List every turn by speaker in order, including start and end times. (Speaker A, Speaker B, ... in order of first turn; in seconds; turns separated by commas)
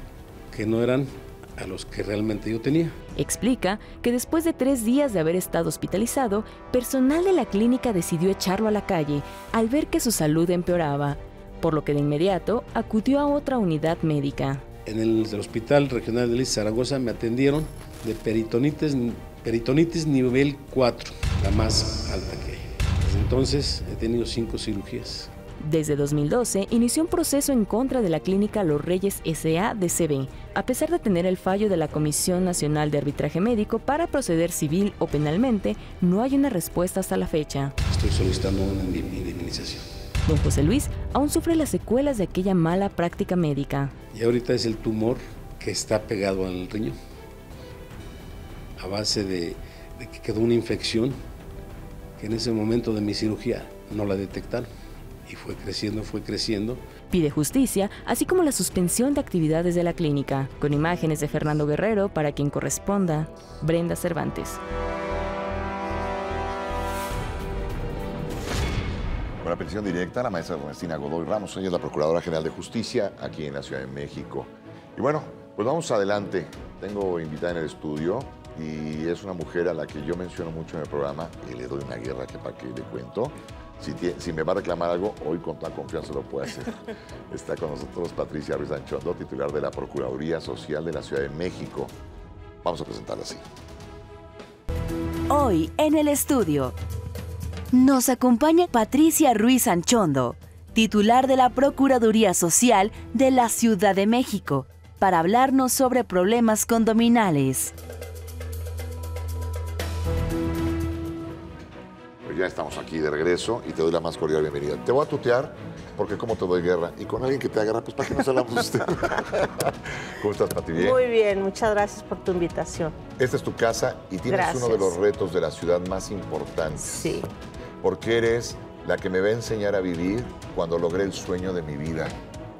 Speaker A: 0.5-3.0, Speaker B: 3.1-14.6, Speaker A: 14.8-25.3, Speaker B: 25.6-37.7, Speaker A: 37.9-40.0, Speaker B: 40.2-43.9, Speaker A: 44.1-47.0, Speaker A: 48.8-51.2, Speaker A: 52.2-54.7, Speaker A: 55.2-56.8, Speaker B: 57.1-64.6, Speaker C: 69.4-91.9, Speaker C: 92.6-93.4, Speaker D: 95.3-96.7, Speaker D: 97.7-107.7, Speaker C: 112.2-121.0, Speaker E: 120.7-123.0, Speaker C: 123.2-127.2, Speaker E: 124.3-125.0, Speaker E: 126.8-127.2, Speaker C: 127.8-132.2